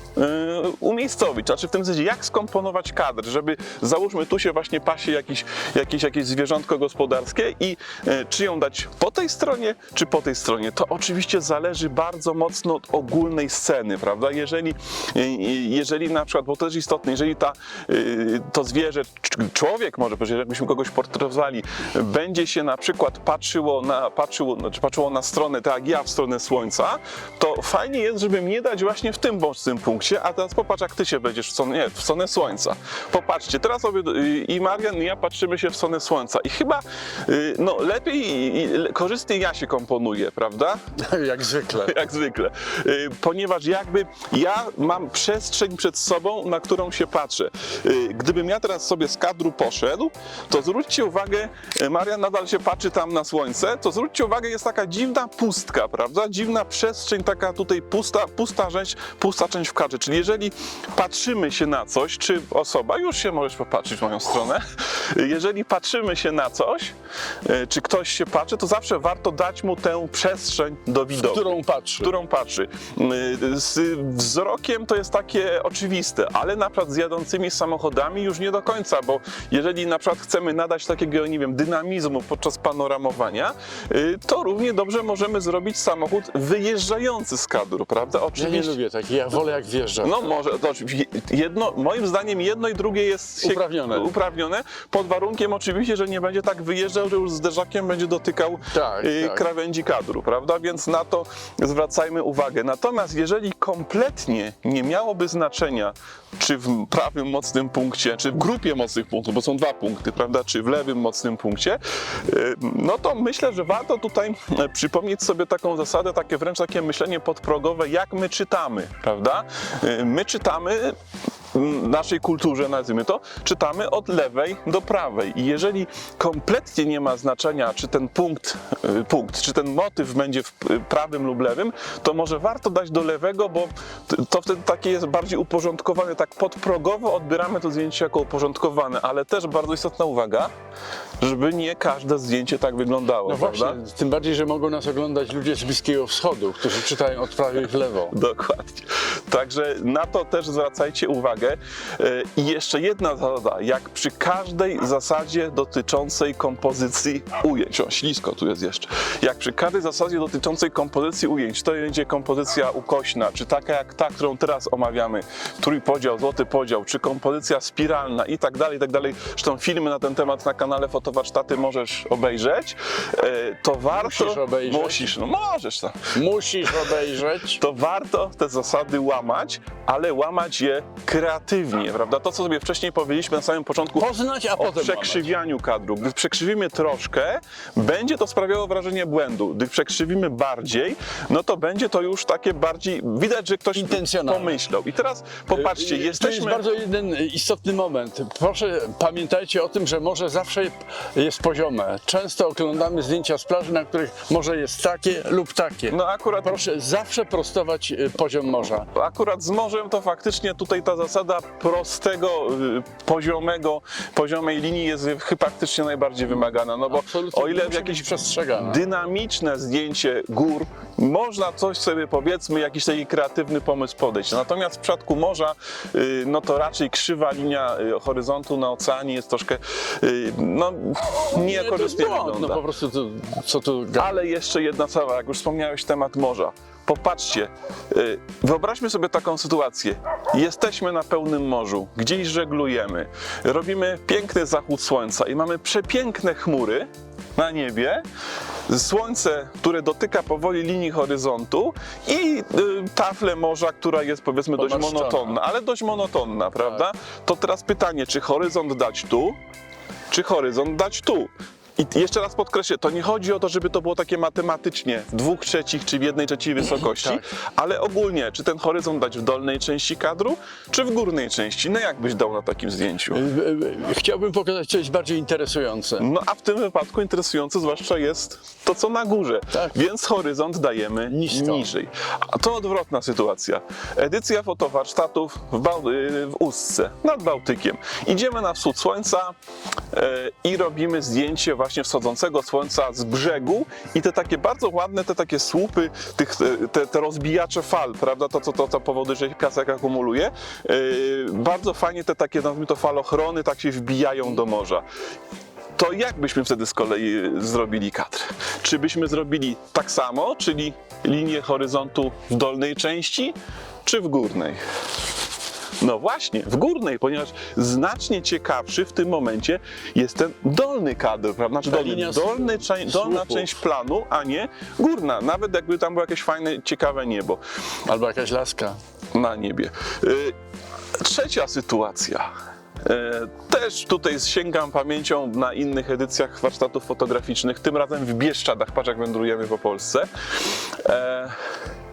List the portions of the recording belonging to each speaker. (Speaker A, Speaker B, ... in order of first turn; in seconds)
Speaker A: 0.2-40.8, 41.8-88.8, 90.0-121.0, 121.5-140.5, 141.2-143.8, 148.1-176.0, 177.6-196.7, 205.9-206.6, 208.9-232.6, 234.0-248.0, 248.7-259.4, 260.1-273.2, 276.0-289.4, 289.9-304.8, 305.8-314.6, 315.8-327.4, 329.1-330.4, 331.0-332.3, 332.8-340.1, 340.8-341.4
Speaker B: 41.0-42.0, 71.2-72.1, 88.4-90.2, 93.4-94.1, 98.7-99.5, 143.3-148.2, 173.9-175.1, 176.1-177.6, 184.0-185.3, 193.8-194.6, 195.5-208.9, 216.9-218.8, 231.3-234.2, 254.6-255.4, 266.9-267.2, 273.1-276.1, 281.1-281.7, 321.6-323.6, 327.9-328.8